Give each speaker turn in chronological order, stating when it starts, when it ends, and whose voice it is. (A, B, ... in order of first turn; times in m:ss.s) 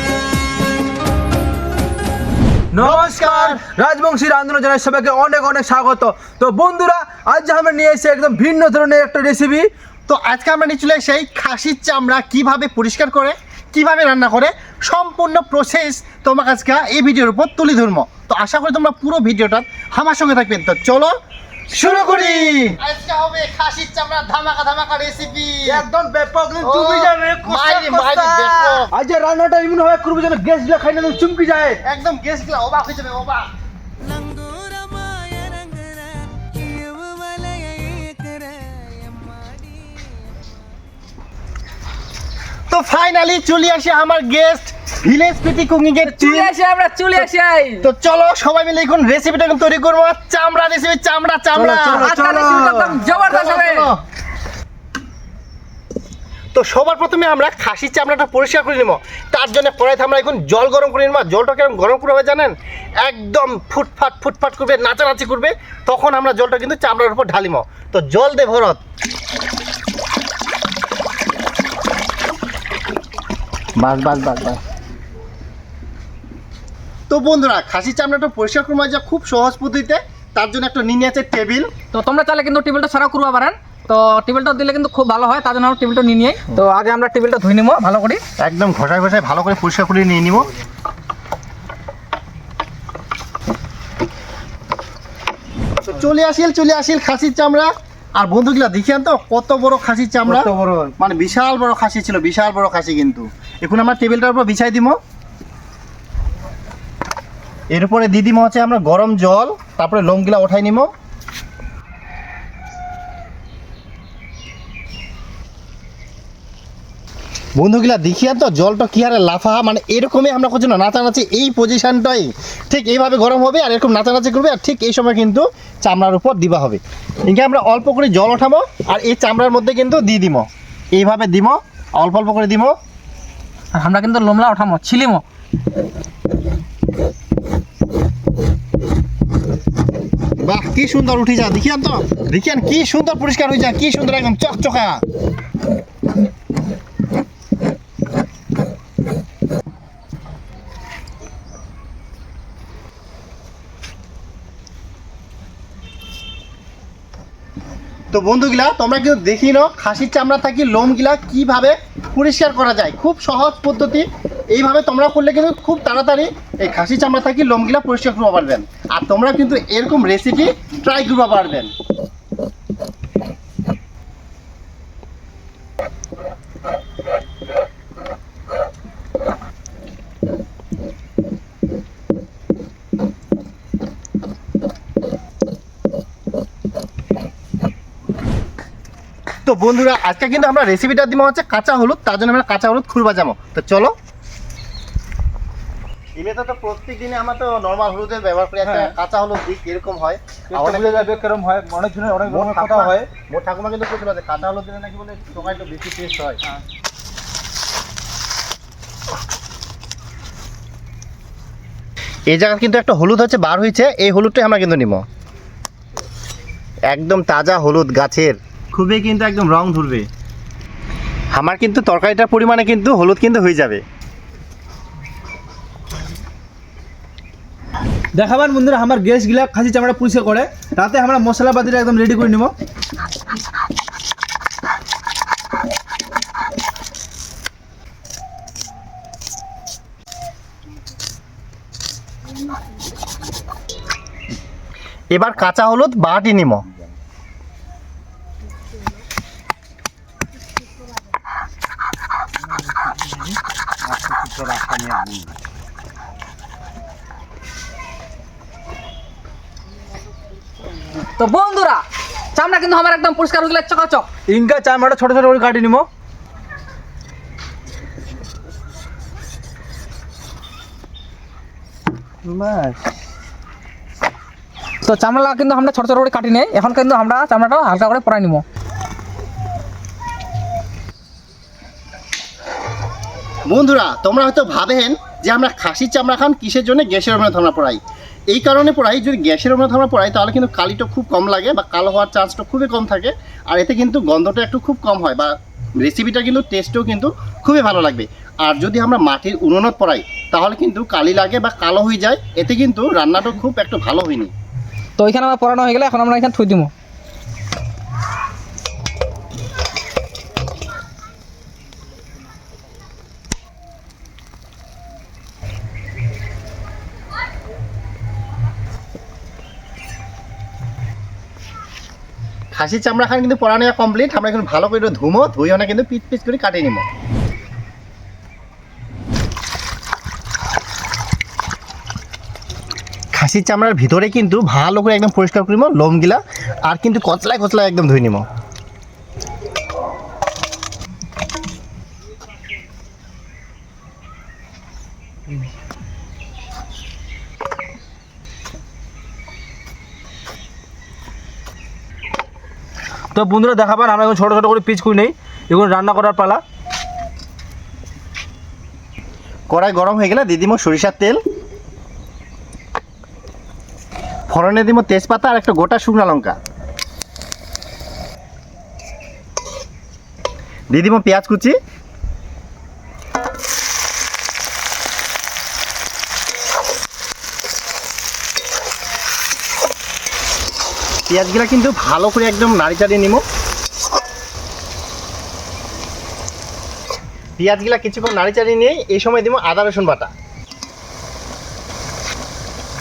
0:02.7-0:09.7 A
0:02.8-0:03.6 B
0:10.1-0:21.1 B
0:21.7-0:25.8 B
0:21.8-0:22.8 A
0:25.7-0:31.8 A
0:26.6-0:28.9 B
0:31.8-0:33.5 B
0:42.7-0:46.5 B
0:46.0-0:47.8 C
0:47.8-0:54.0 B
0:51.5-0:53.0 A
0:51.9-0:53.9 C
0:56.5-1:08.8 B
1:13.8-1:14.6 B
1:17.1-1:21.7 B
1:21.9-1:28.2 C
1:28.4-1:30.5 B
1:35.8-1:45.0 B
1:40.2-1:41.0 A
1:47.7-1:50.9 B
1:57.6-2:12.7 B
2:13.7-2:15.2 C
2:20.4-2:25.0 B
2:38.1-2:51.7 B
3:09.4-3:13.9 B
3:16.2-3:21.2 B
3:18.6-3:18.9 A
3:20.5-3:23.1 A
3:22.3-3:26.4 B
3:32.3-3:35.0 B
3:36.9-3:40.1 B
3:41.3-3:43.8 B
3:48.1-3:52.5 A
4:05.1-4:06.6 B
4:14.0-4:15.1 A
4:21.2-4:21.8 C
4:22.3-4:24.1 C
4:24.3-4:25.8 A
4:32.2-4:32.8 A
4:34.8-4:38.4 C
4:43.5-4:47.8 B
4:48.3-5:04.3 B
5:05.0-5:06.7 C
5:22.5-5:26.8 B
5:33.1-5:38.2 B
5:53.1-5:56.4 A
5:59.5-6:01.2 B
6:04.3-6:06.3 B
6:10.7-6:11.5 B
6:21.1-6:23.2 B
6:27.4-6:30.1 B